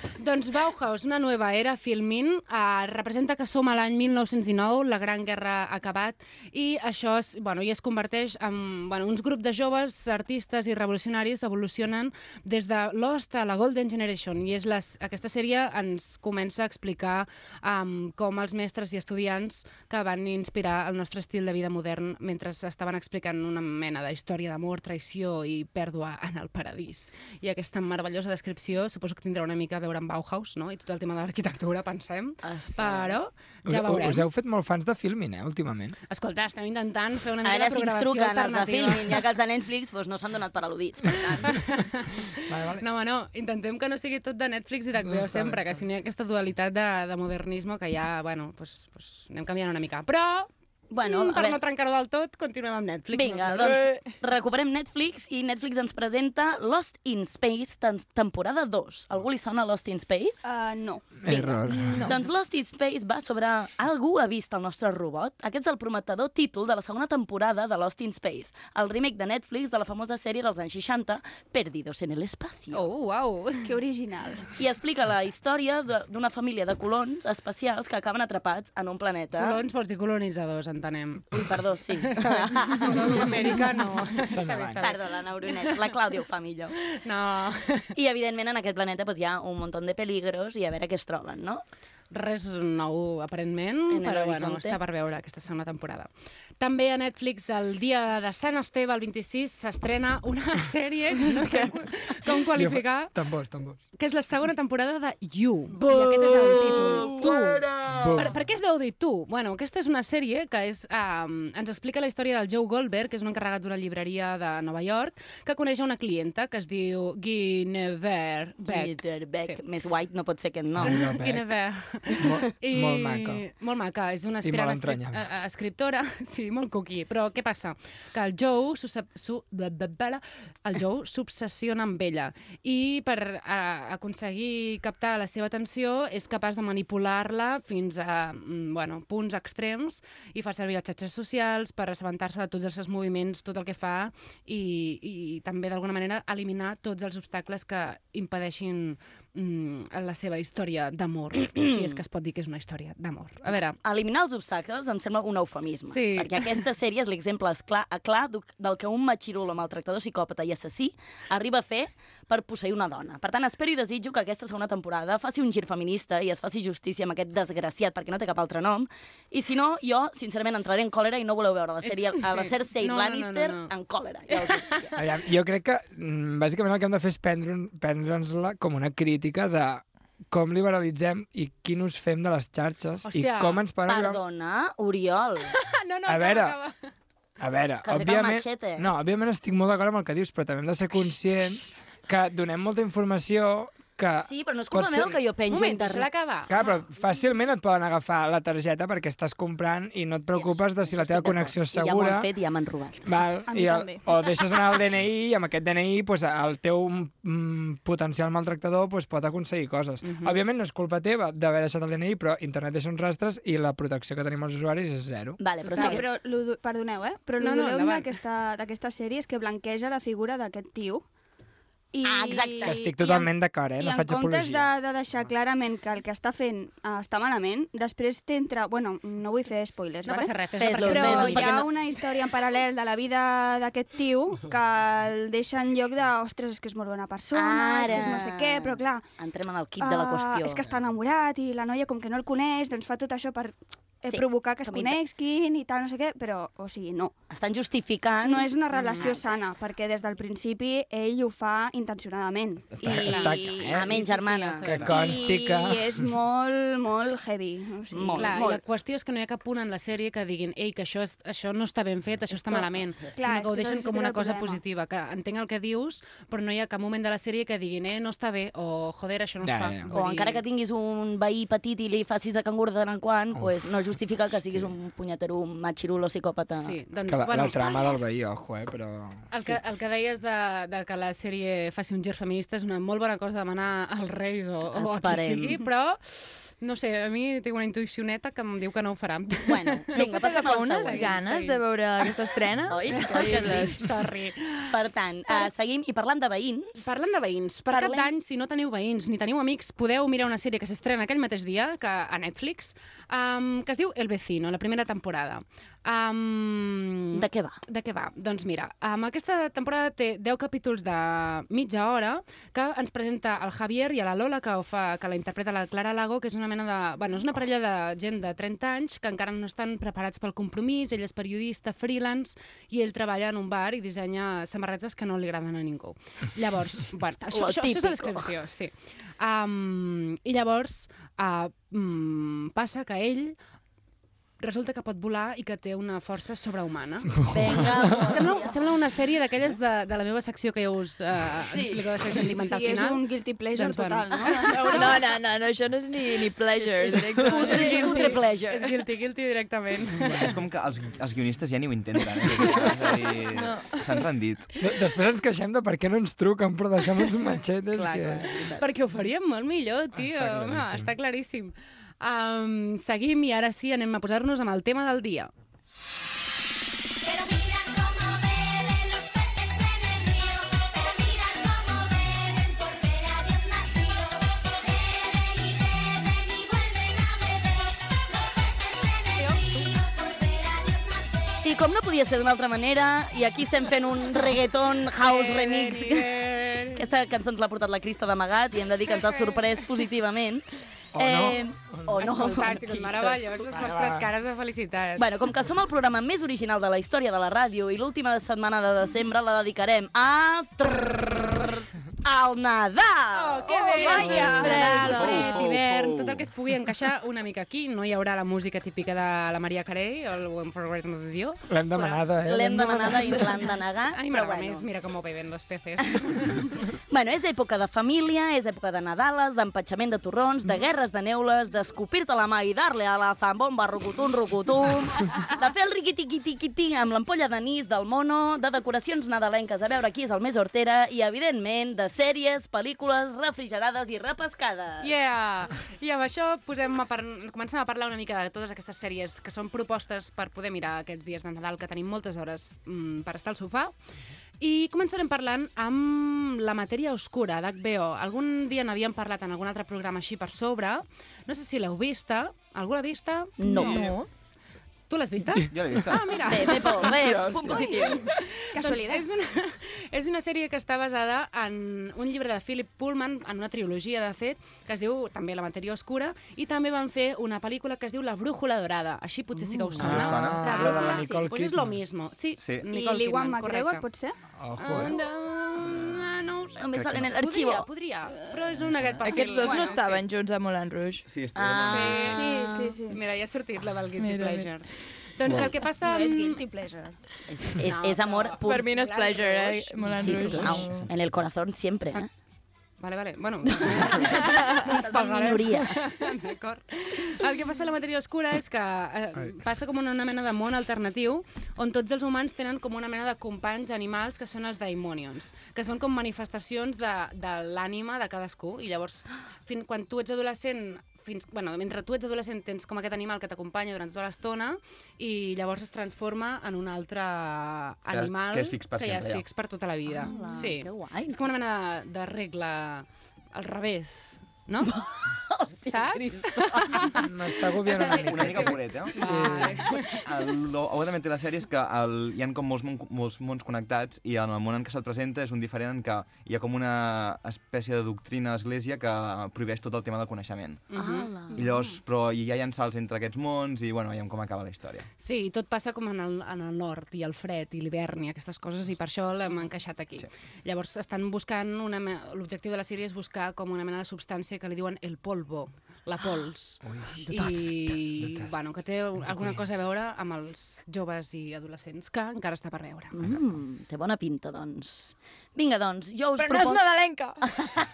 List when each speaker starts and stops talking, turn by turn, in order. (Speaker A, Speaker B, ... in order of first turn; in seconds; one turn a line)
Speaker A: 0.2-34.2
Speaker B: 32.4-33.2
Speaker C: 33.6-36.0
Speaker A: 36.1-39.2
Speaker B: 37.4-41.5
Speaker A: 41.5-53.8
Speaker C: 42.5-42.9
Speaker C: 45.0-45.8
Speaker B: 50.9-51.6
Speaker B: 53.1-60.5
Speaker D: 53.6-54.0
Speaker E: 60.4-61.0
Speaker C: 61.2-62.1
Speaker B: 61.3-72.8
Speaker D: 61.9-62.2
Speaker A: 72.7-73.7
Speaker E: 73.6-74.5
Speaker B: 74.6-79.6
Speaker A: 79.4-85.9
Speaker B: 81.3-83.2
Speaker D: 82.5-83.1
Speaker C: 84.3-84.8
Speaker B: 84.8-86.7
Speaker A: 86.9-87.9
Speaker B: 87.9-91.6
Speaker A: 92.1-96.1
Speaker B: 93.9-94.8
Speaker A: 96.6-103.1
Speaker C: 102.5-103.8
Speaker A: 104.0-119.6
Speaker B: 105.9-107.4
Speaker C: 107.9-108.4
Speaker B: 118.7-121.0
Speaker C: 120.8-121.5
Speaker A: 120.9-153.8
Speaker C: 122.2-123.5
Speaker C: 124.4-125.2
Speaker B: 153.8-174.9
Speaker A: 155.9-156.6
Speaker A: 171.8-173.7
Speaker C: 175.0-184.2
Speaker A: 183.0-183.6
Speaker B: 183.9-185.5
Speaker A: 185.5-186.7
Speaker C: 186.1-186.6
Speaker C: 187.4-195.2
Speaker B: 187.8-188.9
Speaker B: 194.2-196.1
Speaker A: 195.5-196.5
Speaker C: 196.5-202.3
Speaker B: 200.3-203.0
Speaker C: 203.0-215.4
Speaker E: 203.5-204.6
Speaker A: 210.0-210.3
Speaker B: 215.4-216.0
Speaker E: 215.7-221.1
Speaker A: 215.7-216.0
Speaker A: 217.4-218.1
Speaker E: 221.9-239.0
Speaker B: 222.0-222.8
Speaker C: 222.6-224.7
Speaker A: 230.0-231.6
Speaker B: 230.6-231.7
Speaker B: 237.3-240.6
Speaker E: 239.8-247.1
Speaker B: 244.0-245.0
Speaker B: 247.3-249.1
Speaker E: 248.2-253.7
Speaker A: 248.7-249.2
Speaker C: 252.7-253.9
Speaker A: 253.0-254.9
Speaker B: 253.7-254.7
Speaker C: 254.6-256.1
Speaker E: 254.8-258.6
Speaker B: 257.9-258.5
Speaker A: 258.1-270.4
Speaker E: 263.1-264.6
Speaker C: 269.4-269.9
Speaker B: 269.9-276.7
Speaker C: 273.3-273.7
Speaker A: 276.6-277.8
Speaker C: 277.0-279.6
Speaker A: 279.3-289.9
Speaker B: 284.7-285.6
Speaker B: 289.4-291.2
Speaker D: 289.9-293.9
Speaker A: 290.6-292.2
Speaker B: 292.7-293.7
Speaker A: 292.9-294.8
Speaker B: 294.7-296.9
Speaker A: 296.8-333.3
Speaker B: 297.7-298.1
Speaker B: 307.1-307.6
Speaker B: 327.2-328.3
Speaker A: 334.4-343.0
Speaker C: 337.3-337.5
Speaker B: 337.3-338.7
Speaker B: 341.4-341.8
Speaker E: 342.3-344.9
Speaker A: 343.5-345.1
Speaker D: 344.7-348.2
Speaker B: 346.5-348.7
Speaker A: 347.3-350.3
Speaker C: 349.9-350.4
Speaker F: 350.2-354.5
Speaker D: 353.3-354.0
Speaker C: 354.6-358.3
Speaker B: 357.7-358.6
Speaker A: 358.6-365.3
Speaker C: 359.9-360.9
Speaker B: 381.4-393.5
Speaker A: 385.0-386.8
Speaker C: 390.9-392.1
Speaker A: 392.0-395.0
Speaker D: 392.1-392.4
Speaker C: 393.5-394.1
Speaker B: 395.0-404.8
Speaker A: 403.1-412.1
Speaker E: 403.5-404.8
Speaker D: 403.7-405.5
Speaker F: 404.1-406.3
Speaker C: 411.5-413.3
Speaker B: 412.2-414.7
Speaker A: 413.9-416.5
Speaker B: 416.9-434.9
Speaker A: 434.8-443.7
Speaker A: 444.4-453.9
Speaker B: 453.4-453.8
Speaker D: 453.4-454.1
Speaker A: 454.9-473.8
Speaker F: 455.5-457.9
Speaker B: 456.2-458.0
Speaker E: 458.5-459.0
Speaker D: 469.5-469.9
Speaker C: 469.8-471.8
Speaker F: 469.9-470.6
Speaker E: 470.4-471.2
Speaker F: 472.4-472.6
Speaker E: 472.7-474.1
Speaker C: 474.4-475.0
Speaker A: 474.6-479.9
Speaker B: 476.6-477.6
Speaker D: 479.0-481.0
Speaker E: 479.4-480.0
Speaker F: 481.0-482.2
Speaker B: 481.3-482.8
Speaker A: 481.6-482.2
Speaker E: 482.0-483.0
Speaker A: 482.9-486.4
Speaker D: 484.0-484.5
Speaker E: 485.8-487.0
Speaker B: 487.3-488.7
Speaker A: 487.6-490.5
Speaker D: 488.4-490.9
Speaker B: 490.0-492.1
Speaker F: 490.6-490.9
Speaker A: 492.8-524.7
Speaker B: 493.5-495.8
Speaker F: 517.9-519.2
Speaker B: 519.9-521.2
Speaker B: 524.6-527.0
Speaker A: 525.7-527.0
Speaker C: 527.0-529.6
Speaker A: 527.7-529.8
Speaker F: 527.9-529.3
Speaker F: 530.0-540.6
Speaker A: 540.7-541.1
Speaker B: 540.7-541.4
Speaker E: 541.3-541.8
Speaker F: 541.3-544.9
Speaker A: 545.0-562.9
Speaker C: 556.6-558.4
Speaker C: 559.0-559.4
Speaker B: 562.9-566.6
Speaker D: 566.2-567.3
Speaker B: 567.4-567.6